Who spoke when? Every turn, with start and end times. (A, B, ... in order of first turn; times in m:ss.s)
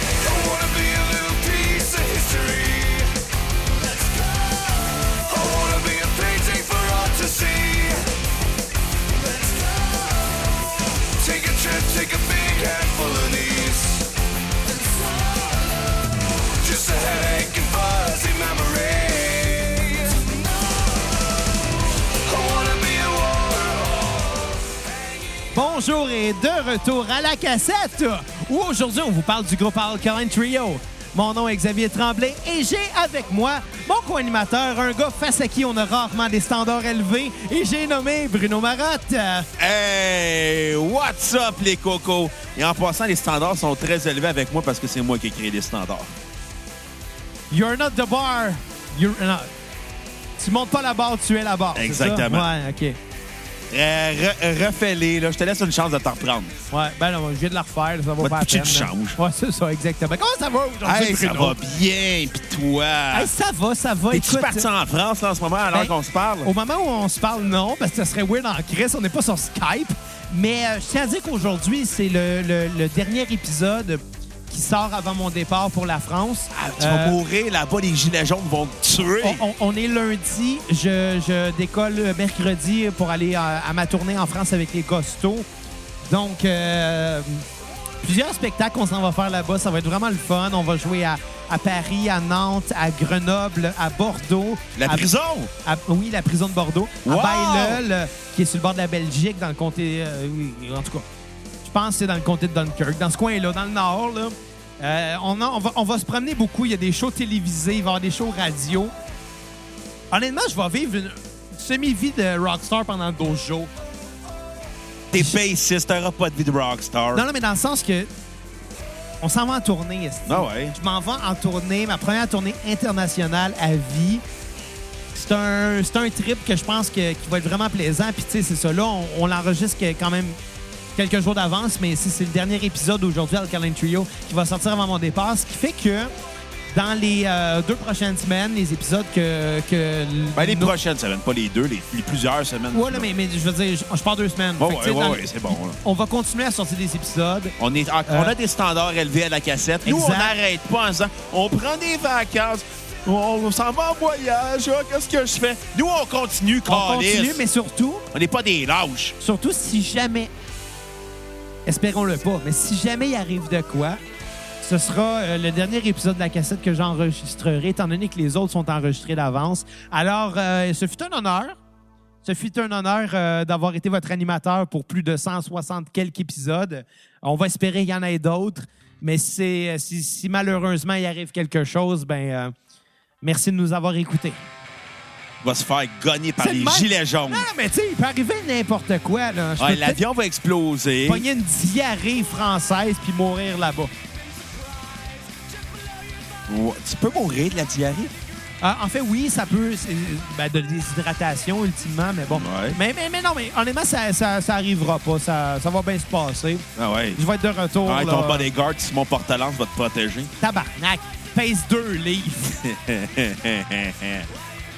0:00.2-0:03.1 A
0:03.8-0:08.1 A
0:09.1-0:14.1 A
0:14.7-0:15.8 A
0:16.4-0:21.1 A
0:22.2-0:25.4 A
0:25.5-0:39.5 B
0:39.6-0:46.1 C
0:47.5-0:49.5 B
0:50.4-0:53.0 B
0:51.7-0:52.5 C
0:53.7-0:56.5 C
0:56.7-1:01.6 B
0:58.2-0:59.2 C
1:00.8-1:03.3 C
1:03.1-1:04.7 B
1:04.1-1:06.5 C
1:06.4-1:17.2 B
1:16.5-1:19.4 C
1:19.2-1:25.5 B
1:26.0-1:27.4 B
1:28.0-1:35.1 B
1:34.8-1:35.5 C
1:35.6-1:41.1 B
1:37.0-1:37.8 C
1:41.6-1:48.9 B
1:50.1-1:53.7 B
1:55.1-1:57.2 C
1:57.1-1:58.1 B
1:59.2-2:04.2 B
2:00.3-2:00.8 C
2:05.1-2:10.4 B
2:11.0-2:16.1 B
2:16.7-2:20.7 B
2:20.4-2:23.1 C
2:22.7-2:27.6 B
2:24.6-2:25.8 C
2:27.6-2:37.4 C
2:28.1-2:28.3 B
2:29.8-2:30.4 B
2:36.7-2:38.1 B
2:38.1-2:39.2 C
2:39.2-2:40.3 B
2:41.7-2:44.0 B
2:44.6-2:51.6 B
2:52.2-3:02.5 B
3:03.2-3:04.4 B
3:05.4-3:07.5 C
3:06.4-3:10.0 B
3:09.6-3:11.2 C
3:11.1-3:13.9 B
3:16.5-3:18.1 C
3:18.6-3:28.5 B
3:22.3-3:22.8 C
3:26.8-3:27.2 C
3:27.8-3:30.3 C
3:30.4-3:32.6 B
3:32.5-3:34.3 C